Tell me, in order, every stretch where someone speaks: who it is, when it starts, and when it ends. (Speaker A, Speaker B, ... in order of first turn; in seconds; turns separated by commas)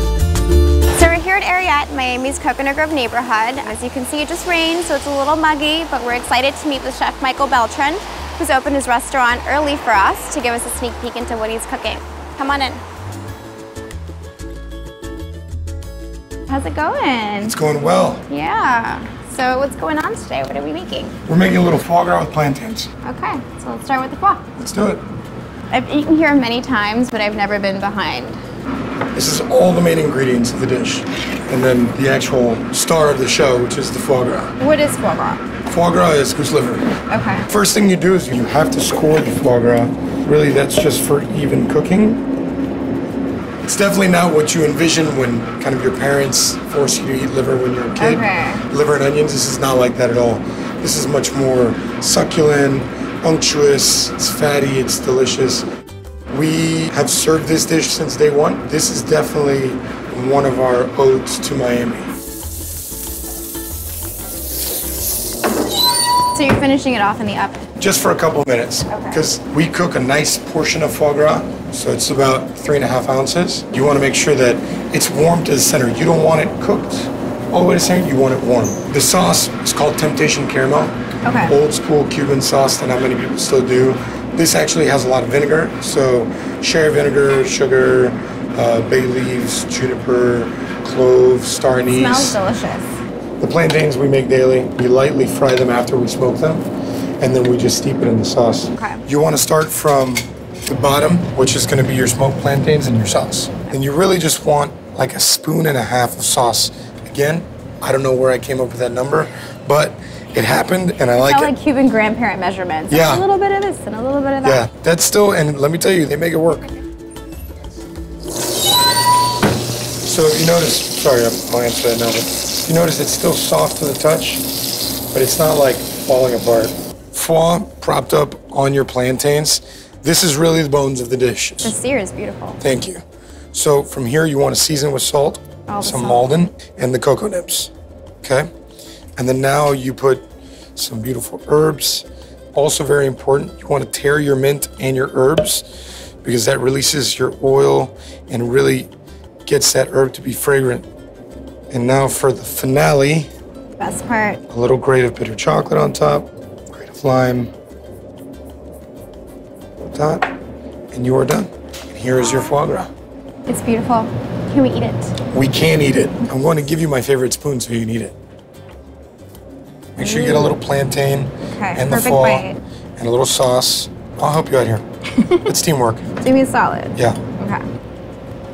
Speaker A: 0.9-12.8, Speaker A: 16.5-17.6, Speaker B: 17.4-18.3, Speaker A: 18.3-21.2, Speaker B: 21.3-22.9, Speaker A: 23.0-24.5, Speaker B: 24.6-25.1, Speaker A: 25.7-28.4, Speaker B: 29.1-34.5, Speaker A: 34.6-35.4, Speaker B: 35.7-36.9, Speaker A: 37.1-37.5, Speaker B: 37.5-42.2, Speaker B: 43.7-55.7, Speaker A: 48.0-48.6, Speaker B: 56.3-62.1, Speaker A: 66.3-67.7, Speaker B: 67.8-92.4, Speaker A: 68.9-69.2, Speaker A: 81.2-81.5, Speaker A: 91.9-93.0, Speaker B: 93.4-96.7, Speaker B: 97.2-111.5, Speaker A: 98.7-99.0, Speaker A: 111.2-114.6, Speaker B: 112.9-113.3, Speaker B: 114.4-116.7, Speaker B: 120.0-124.5, Speaker B: 125.1-131.8, Speaker A: 131.6-132.6, Speaker B: 132.6-137.7, Speaker A: 135.7-136.3, Speaker B: 138.2-138.5, Speaker B: 139.2-145.7, Speaker B: 146.2-148.9, Speaker B: 149.5-150.9, Speaker B: 151.7-153.3, Speaker A: 153.8-154.4, Speaker B: 154.5-157.5, Speaker B: 159.9-160.3, Speaker B: 160.9-162.9, Speaker A: 163.5-165.1, Speaker B: 165.3-168.2, Speaker B: 170.0-172.4, Speaker A: 170.0-170.6, Speaker A: 171.5-172.6, Speaker B: 173.0-174.8, Speaker A: 175.2-175.5, Speaker B: 175.4-176.1, Speaker A: 176.2-177.6, Speaker B: 176.9-177.2